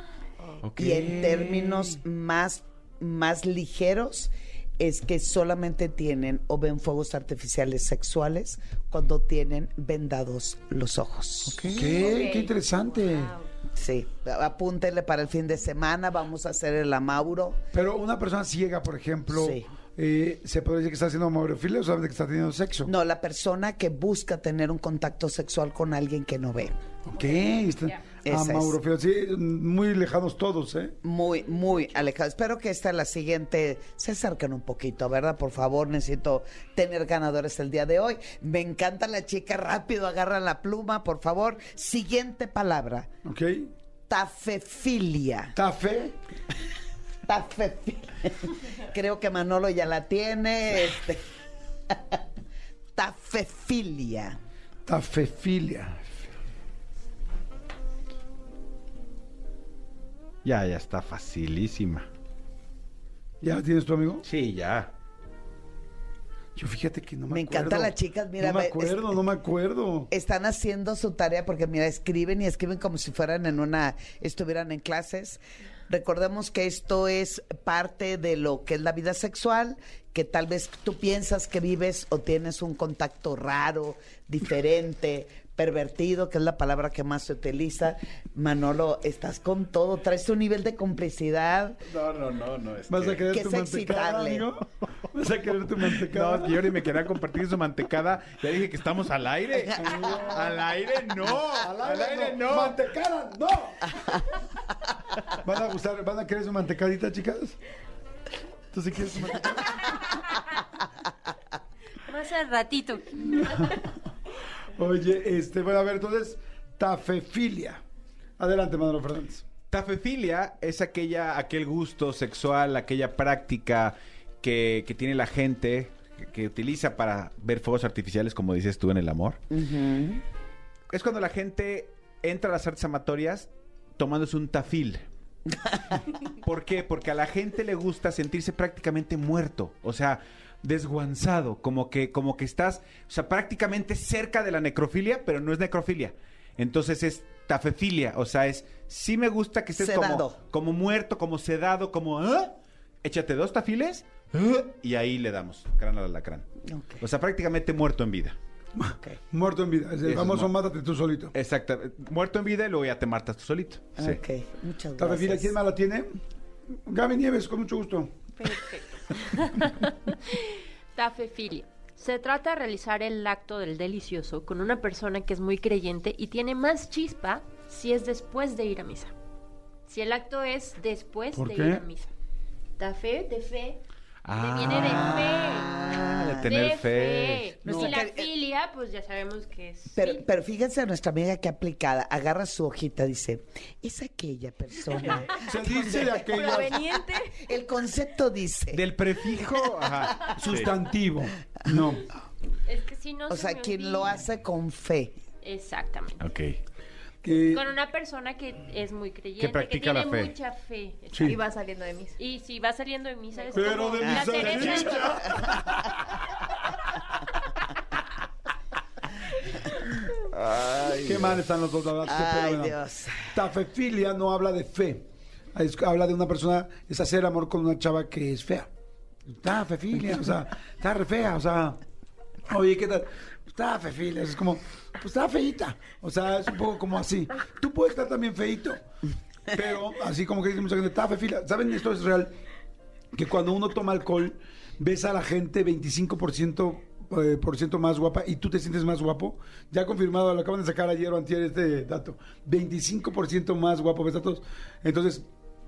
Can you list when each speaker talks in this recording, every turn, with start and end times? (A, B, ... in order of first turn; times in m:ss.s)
0:00.6-0:02.0 A
0:00.8-0:11.7 B
0:11.5-0:13.4 C
0:11.7-0:12.0 A
0:12.0-0:12.5 D
0:12.7-0:13.5 E
0:13.7-0:17.6 B
0:17.7-0:22.9 C
0:19.3-0:19.7 B
0:22.8-0:26.8 B
0:27.0-0:31.0 C
0:28.2-0:28.8 B
0:31.0-0:43.1 B
0:43.2-0:43.7 C
0:44.1-0:45.6 B
0:45.6-0:46.2 C
0:47.3-0:51.2 B
0:51.9-0:52.2 B
0:53.0-0:54.4 B
0:54.9-0:56.3 C
1:00.4-1:02.1 A
1:03.4-1:04.2 C
1:04.2-1:04.9 A
1:06.6-1:10.1 C
1:07.3-1:09.2 B
1:10.1-1:31.8 B
1:32.0-1:33.2 A
1:32.9-1:36.7 C
1:33.3-1:34.5 B
1:36.1-1:42.8 A
1:39.7-1:40.6 C
1:41.6-1:44.1 C
1:45.4-1:47.6 C
1:48.7-1:50.0 C
1:52.0-1:53.2 E
1:53.3-1:53.9 C
1:54.7-1:57.8 C
1:58.4-1:59.4 C
1:59.7-2:09.4 A
2:09.5-2:10.2 B
2:10.9-2:15.0 A
2:15.7-2:16.0 B
2:16.4-2:36.4 A
2:29.8-2:30.4 B
2:36.7-2:37.0 B
2:37.0-2:38.4 A
2:38.8-2:41.3 C
2:40.0-2:40.5 A
2:41.3-2:44.2 A
2:44.0-2:45.6 B
2:45.0-2:46.2 C
2:46.9-2:48.1 C
2:48.4-2:59.1 E
2:59.9-3:02.1 E
3:01.3-3:01.9 C
3:02.8-3:03.8 E
3:04.2-3:05.3 A
3:04.3-3:05.8 E
3:04.7-3:06.5 B
3:06.0-3:07.5 A
3:06.4-3:10.3 E
3:07.6-3:08.3 B
3:07.6-3:08.0 C
3:09.9-3:18.8 B
3:15.4-3:16.8 C
3:16.1-3:17.5 D
3:18.7-3:20.8 A
3:20.2-3:22.1 C
3:22.7-3:24.2 E
3:23.3-3:25.2 B
3:25.4-3:26.2 E
3:26.2-3:26.6 A
3:27.2-3:27.6 C
3:27.4-3:31.4 E
3:29.4-3:30.4 A
3:31.1-3:31.4 C
3:31.2-3:32.2 D
3:32.2-3:35.2 E
3:33.5-3:36.0 C
3:34.0-3:34.4 B
3:34.5-3:35.0 A
3:35.0-3:35.7 B
3:40.3-3:41.4 A
3:41.0-3:42.8 C
3:42.0-3:43.4 B
3:43.3-3:48.7 C
3:49.3-3:51.8 C
3:52.5-3:58.8 C
3:59.5-4:02.3 C
4:03.1-4:15.3 C